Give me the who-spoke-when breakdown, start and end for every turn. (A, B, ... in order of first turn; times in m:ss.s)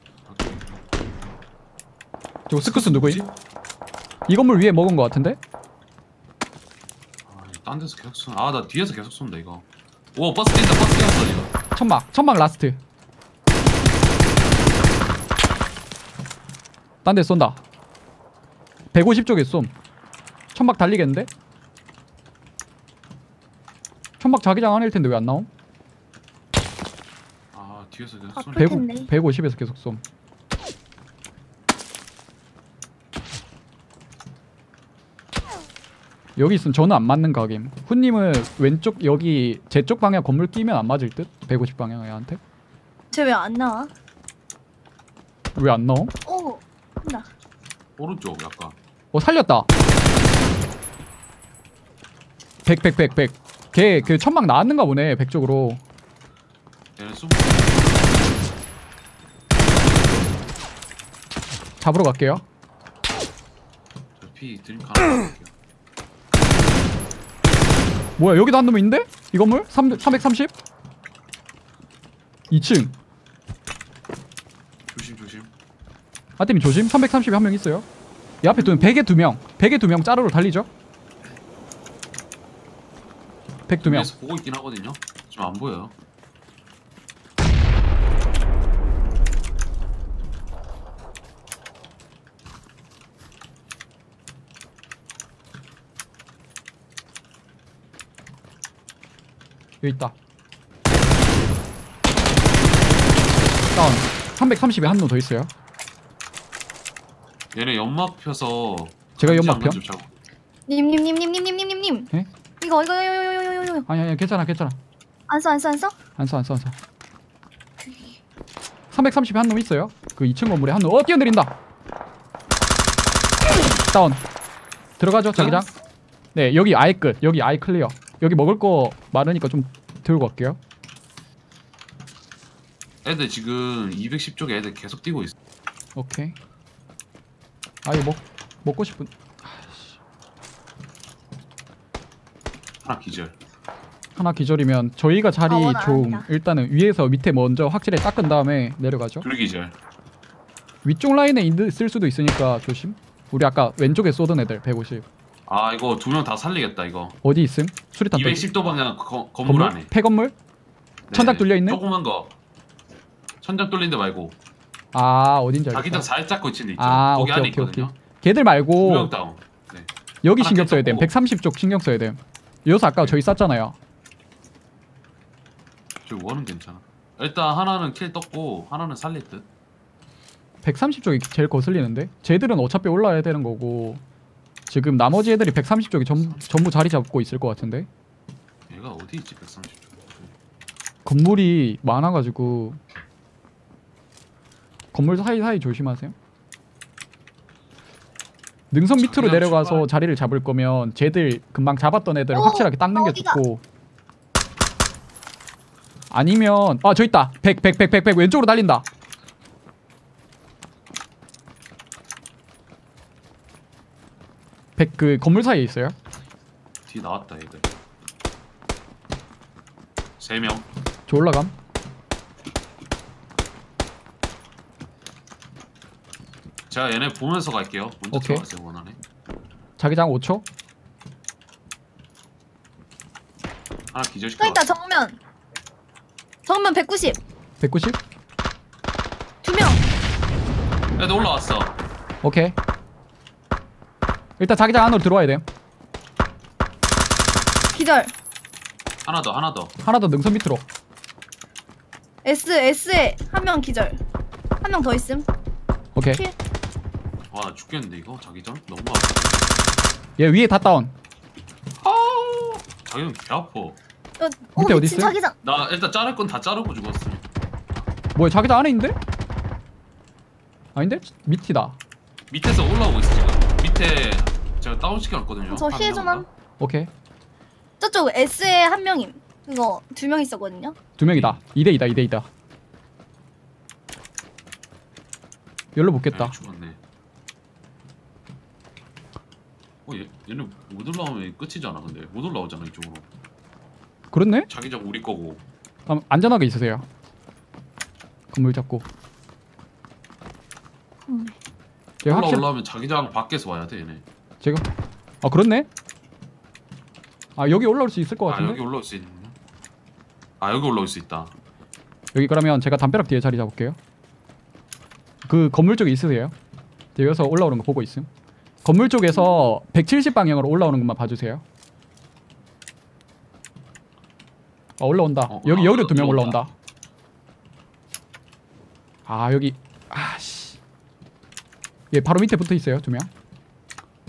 0:00.3-0:00.7 A
0:02.5-0:03.2 B
0:02.6-0:03.3 A
0:04.3-0:05.4 B
0:07.2-0:11.5 A
0:11.7-0:12.8 B
0:17.0-0:17.6 B
0:18.9-0:19.7 B
0:20.5-0:21.3 B
0:24.2-0:25.5 B
0:27.5-0:28.9 A
0:28.4-0:29.1 C
0:28.6-0:30.0 B
0:36.4-0:42.4 B
0:43.1-0:43.9 C
0:45.5-0:46.1 B
0:46.2-0:47.3 C
0:48.0-0:48.8 A
0:49.1-0:49.7 B
0:52.6-0:55.8 B
0:57.0-0:57.9 A
1:01.8-1:02.4 B
1:04.2-1:05.5 A
1:08.2-1:10.5 B
1:12.5-1:12.9 B
1:14.9-1:15.5 A
1:16.4-1:17.9 B
1:18.4-1:20.7 B
1:23.7-1:24.1 B
1:23.8-1:25.9 A
1:39.8-1:40.1 B
1:43.7-1:45.5 B
1:47.5-1:50.2 A
1:49.2-1:49.8 B
1:50.7-1:52.1 C
1:52.6-1:53.9 C
1:53.9-1:54.8 B
1:55.3-1:56.0 C
1:56.2-1:56.8 B
1:58.9-2:01.5 B
2:03.7-2:04.2 B
2:05.0-2:05.7 B
2:05.4-2:05.7 A
2:06.4-2:10.6 B
2:13.0-2:15.3 A
2:16.0-2:16.4 B
2:17.8-2:20.0 B
2:22.8-2:23.4 A
2:24.2-2:29.2 B
2:25.5-2:26.3 C
2:29.2-2:29.7 A
2:30.8-2:35.0 B
2:35.4-2:37.2 A
2:37.2-2:38.4 B
2:38.1-2:39.9 A
2:39.4-2:40.3 B
2:41.1-2:42.3 A
2:41.1-2:41.8 B
2:43.4-2:44.4 A
2:44.9-2:46.1 B
2:45.7-2:48.0 A
2:46.8-2:49.1 B
2:48.8-2:51.1 A
2:50.2-2:53.8 B
2:53.0-2:53.4 A
2:56.0-2:59.5 A
3:00.6-3:04.0 B
3:04.7-3:07.9 B
3:08.7-3:10.3 A
3:11.0-3:12.8 B
3:14.9-3:16.1 B
3:18.7-3:23.6 B
3:19.0-3:19.9 A
3:22.3-3:23.4 C
3:26.1-3:28.9 B
3:34.8-3:36.0 B
3:36.9-3:37.7 A
3:40.2-3:40.6 A
3:41.1-3:41.5 B
3:46.7-3:49.0 A
3:48.1-3:48.4 B
3:49.8-3:50.4 B
3:53.9-3:54.7 A
3:54.4-3:55.2 C
3:56.5-3:57.2 C
3:57.6-3:58.0 B
3:59.4-3:59.8 C
4:01.0-4:01.8 A
4:02.2-4:02.6 B
4:04.4-4:05.4 B
4:07.7-4:08.1 C
4:09.0-4:09.7 A
4:09.8-4:10.6 B
4:12.2-4:14.0 C
4:14.6-4:15.3 C
4:15.9-4:16.2 B
4:17.3-4:19.4 A
4:20.2-4:20.9 B
4:21.8-4:23.8 A
4:24.2-4:25.4 C
4:24.6-4:25.2 B
4:25.4-4:27.3 A
4:28.1-4:29.0 B
4:30.7-4:31.8 B
4:32.3-4:36.3 A
4:35.5-4:36.3 C
4:36.6-4:36.9 B
4:37.8-4:40.8 C
4:41.0-4:42.3 B
4:41.1-4:41.4 A
4:45.8-4:46.3 B
4:46.1-4:46.8 A
4:49.9-4:53.1 A
4:54.1-4:54.5 B
4:54.5-4:55.4 A
4:55.9-4:56.9 B
4:58.3-4:58.9 B
5:01.1-5:01.4 C
5:02.0-5:02.4 B
5:02.1-5:04.0 A
5:04.4-5:04.6 B
5:05.2-5:05.7 B
5:07.4-5:08.6 B
5:08.3-5:09.4 A
5:10.4-5:11.3 A
5:12.1-5:13.8 B
5:15.2-5:16.4 B
5:16.9-5:18.1 B
5:18.6-5:21.4 B
5:24.8-5:26.5 B
5:25.3-5:26.4 A
5:29.1-5:30.6 B
5:31.9-5:33.1 B